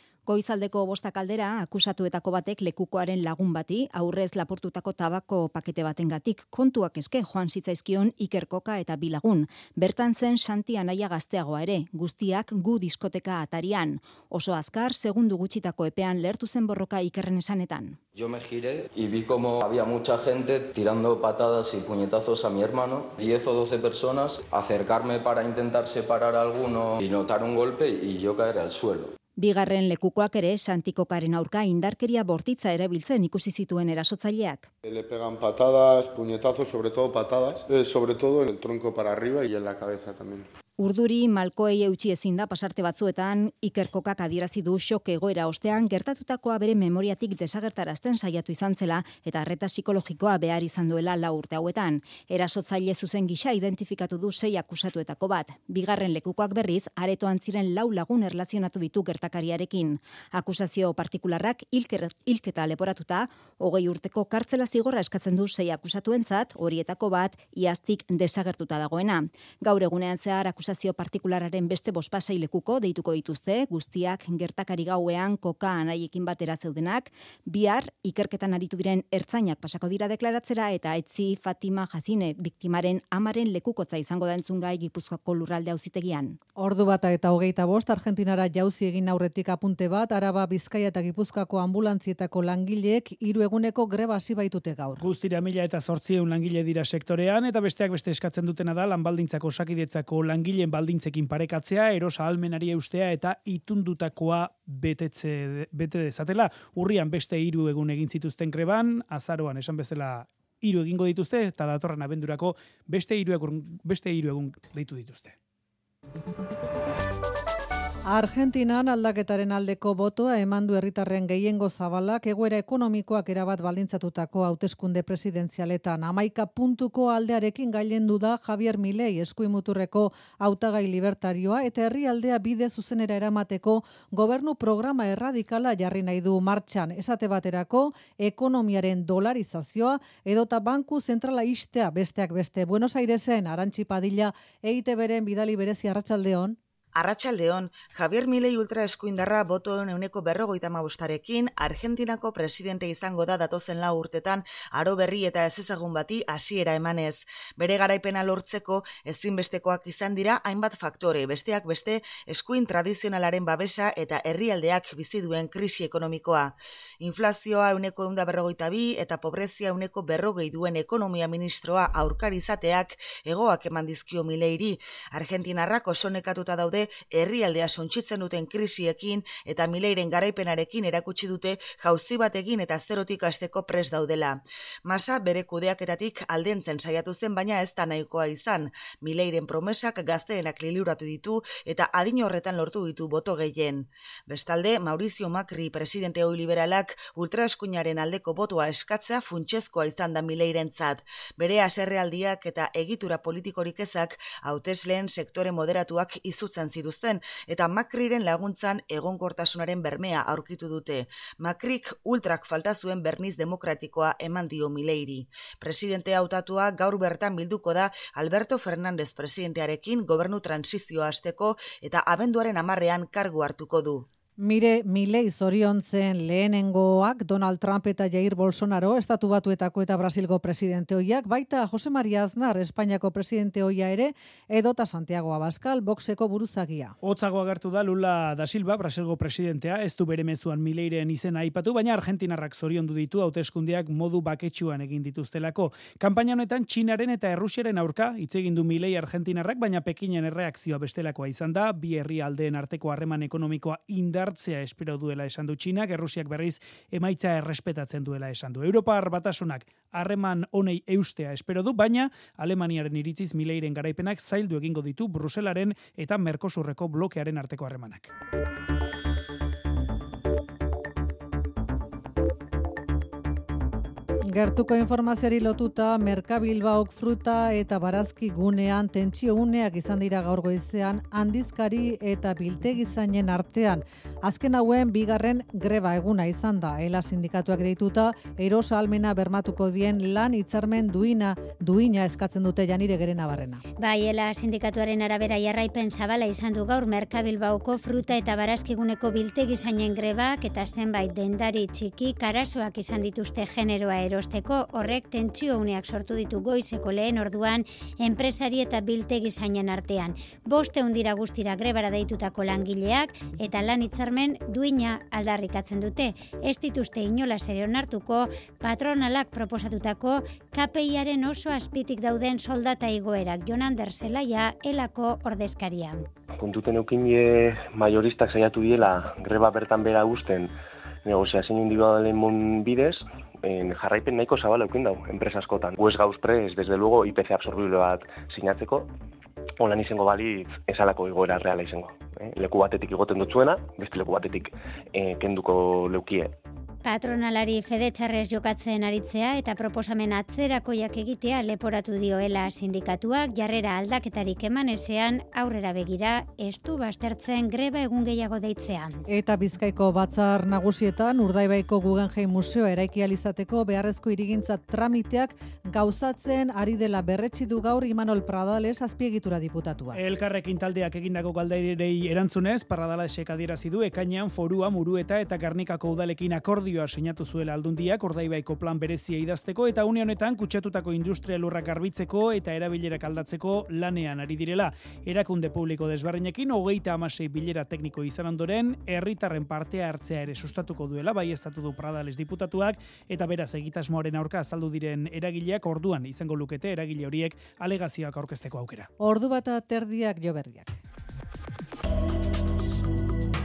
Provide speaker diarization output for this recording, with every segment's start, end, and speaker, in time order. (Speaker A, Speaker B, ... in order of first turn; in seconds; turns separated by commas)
Speaker A: 0.3-18.0, Speaker B: 18.1-29.1, Speaker A: 29.4-34.7, Speaker C: 34.9-40.5, Speaker A: 40.8-86.4, Speaker D: 86.6-95.0, Speaker E: 95.0-115.4, Speaker D: 118.1-146.6, Speaker F: 147.0-224.1, Speaker D: 224.4-236.9, Speaker E: 237.0-268.1, Speaker D: 274.3-293.6, Speaker G: 293.8-326.1, Speaker H: 326.4-330.5, Speaker H: 331.1-338.9, Speaker H: 339.6-346.3, Speaker G: 346.8-359.0, Speaker D: 359.1-370.0, Speaker E: 369.9-398.9, Speaker D: 399.0-400.8